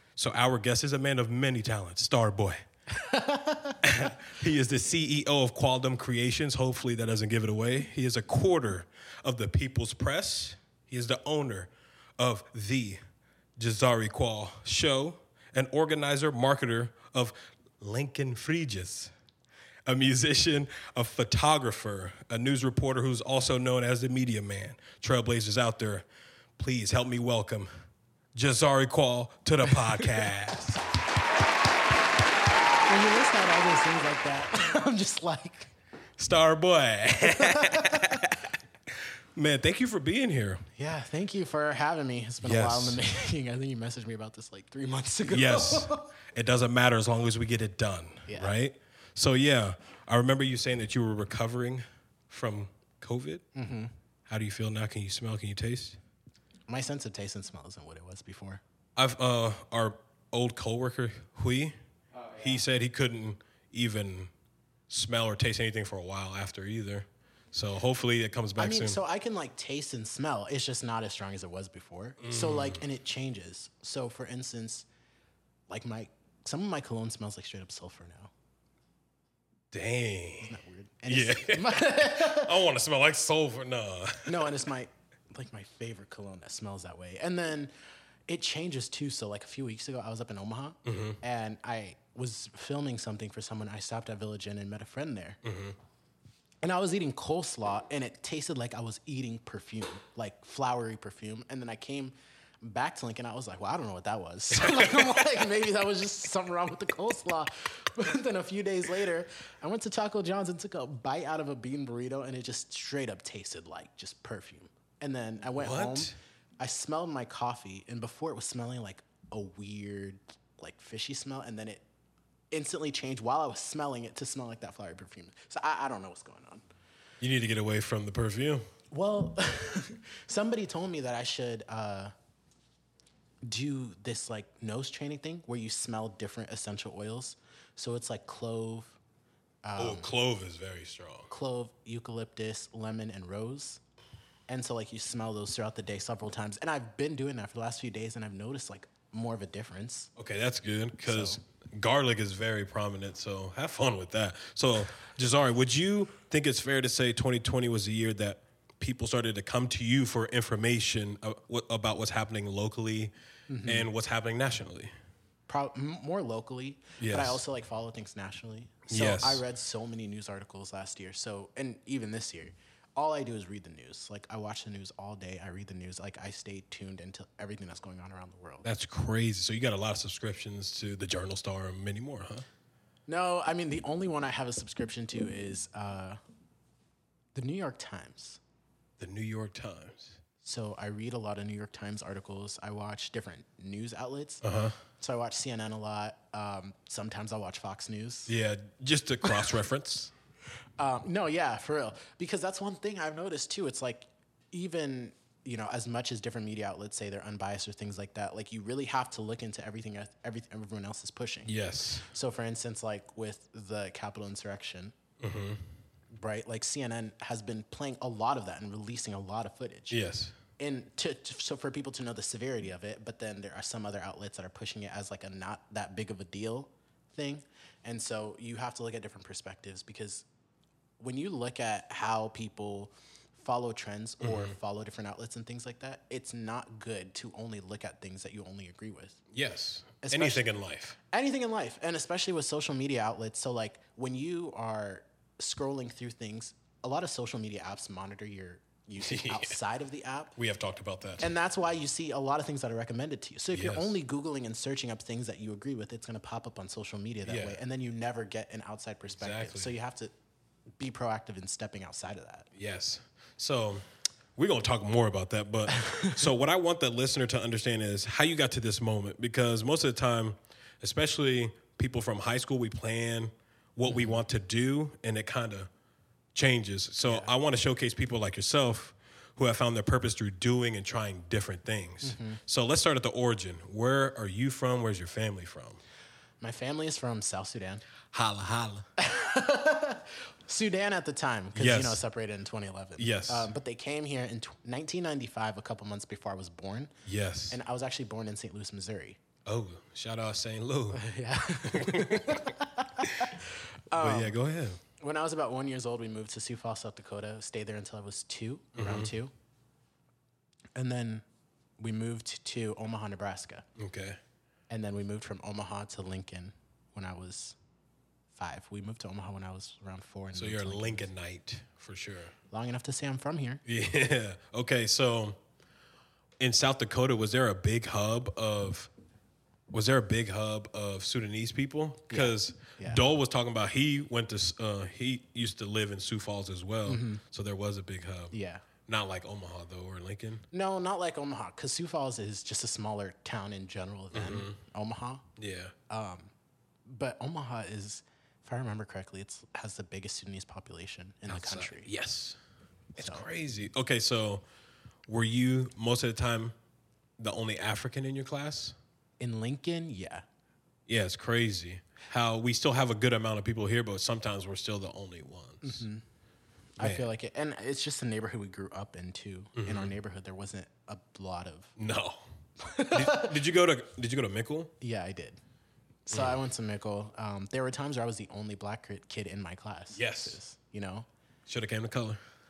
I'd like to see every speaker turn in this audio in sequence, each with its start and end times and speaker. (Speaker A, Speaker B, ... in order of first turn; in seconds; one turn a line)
Speaker A: 0.2-2.6
Speaker B: 2.9-3.8
Speaker A: 3.8-13.0
Speaker A: 13.6-19.1
Speaker A: 19.9-26.1
Speaker A: 26.6-27.7
Speaker A: 28.3-30.8
Speaker B: 32.9-35.7
Speaker A: 36.2-40.6
Speaker B: 37.2-38.3
Speaker B: 40.8-46.1
Speaker A: 42.4-43.0
Speaker A: 45.3-53.4
Speaker B: 48.3-48.5
Speaker B: 53.5-53.9
Speaker A: 54.3-56.0
Speaker B: 56.7-58.6
Speaker A: 59.0-61.8
Speaker B: 62.2-62.6
Speaker A: 62.4-64.3
Speaker A: 64.9-69.0
Speaker B: 68.6-74.9
Speaker A: 72.2-72.8
Speaker B: 75.7-78.3
Speaker A: 79.7-80.6
Speaker B: 80.4-82.5
Speaker A: 81.1-84.5
Speaker B: 84.3-87.7
Speaker B: 88.3-95.4
Speaker A: 90.8-91.2
Speaker A: 95.4-95.8
Speaker B: 96.6-121.8
Speaker A: 104.5-105.3
Speaker A: 115.5-116.1
Speaker B: 122.5-126.6
Speaker A: 127.2-128.6
Speaker B: 128.9-132.1
Speaker B: 133.4-139.0
Speaker B: 139.6-140.1
Speaker A: 139.8-141.3
Speaker B: 141.3-143.8
Speaker B: 144.5-150.1
Speaker A: 150.2-163.1
Speaker B: 151.1-151.4
Speaker B: 163.5-163.9
Speaker A: 163.6-164.9
Speaker B: 165.5-178.7
Speaker A: 167.0-167.4
Speaker A: 168.9-169.4
Speaker A: 178.6-182.4
Speaker B: 183.1-186.2
Speaker B: 187.3-188.4
Speaker A: 189.0-190.2
Speaker B: 190.4-194.4
Speaker A: 194.4-194.8
Speaker B: 194.9-198.3
Speaker A: 198.3-200.1
Speaker B: 200.8-214.9
Speaker A: 211.4-212.1
Speaker A: 215.2-215.6
Speaker B: 216.2-220.0
Speaker A: 219.9-220.3
Speaker B: 220.6-230.2
Speaker B: 231.0-239.2
Speaker A: 234.2-234.6
Speaker A: 239.3-241.0
Speaker B: 240.0-240.5
Speaker B: 241.1-250.3
Speaker A: 249.0-249.6
Speaker A: 250.3-251.3
Speaker B: 251.2-260.1
Speaker A: 253.5-253.9
Speaker A: 257.2-257.6
Speaker A: 259.1-259.7
Speaker B: 260.8-262.5
Speaker A: 262.6-275.7
Speaker B: 265.7-266.3
Speaker B: 273.9-274.2
Speaker A: 276.3-285.8
Speaker B: 277.1-277.3
Speaker B: 282.0-282.4
Speaker B: 286.4-287.9
Speaker A: 288.1-288.9
Speaker B: 289.0-296.9
Speaker A: 291.6-292.0
Speaker A: 293.0-293.5
Speaker A: 297.1-297.6
Speaker B: 297.5-299.2
Speaker A: 299.4-301.0
Speaker B: 300.9-304.4
Speaker A: 301.6-303.4
Speaker A: 303.9-304.8
Speaker B: 305.0-309.3
Speaker A: 308.8-309.1
Speaker B: 310.8-311.2
Speaker B: 311.8-313.6
Speaker A: 313.8-314.2
Speaker B: 314.7-317.6
Speaker B: 318.3-321.1
Speaker A: 320.3-322.3
Speaker B: 322.5-323.6
Speaker A: 323.6-325.4
Speaker A: 326.4-328.9
Speaker A: 329.7-338.3
Speaker B: 332.1-333.0
Speaker B: 336.9-337.2
Speaker B: 338.3-338.6
Speaker A: 338.9-340.4
Speaker B: 340.5-345.2
Speaker A: 344.1-344.6
Speaker A: 345.4-345.8
Speaker B: 345.9-346.3
Speaker B: 346.9-351.9
Speaker A: 351.3-352.4
Speaker A: 352.9-354.4
Speaker B: 353.0-353.3
Speaker A: 355.1-356.6
Speaker A: 357.2-358.8
Speaker B: 359.2-360.2
Speaker A: 360.9-365.9
Speaker B: 365.6-366.0
Speaker B: 366.8-371.7
Speaker A: 366.8-367.1
Speaker A: 369.6-369.9
Speaker A: 371.8-372.2
Speaker B: 372.6-373.4
Speaker A: 372.9-374.7
Speaker B: 374.8-375.4
Speaker B: 376.1-381.1
Speaker A: 376.1-376.4
Speaker A: 379.9-380.4
Speaker A: 381.5-382.2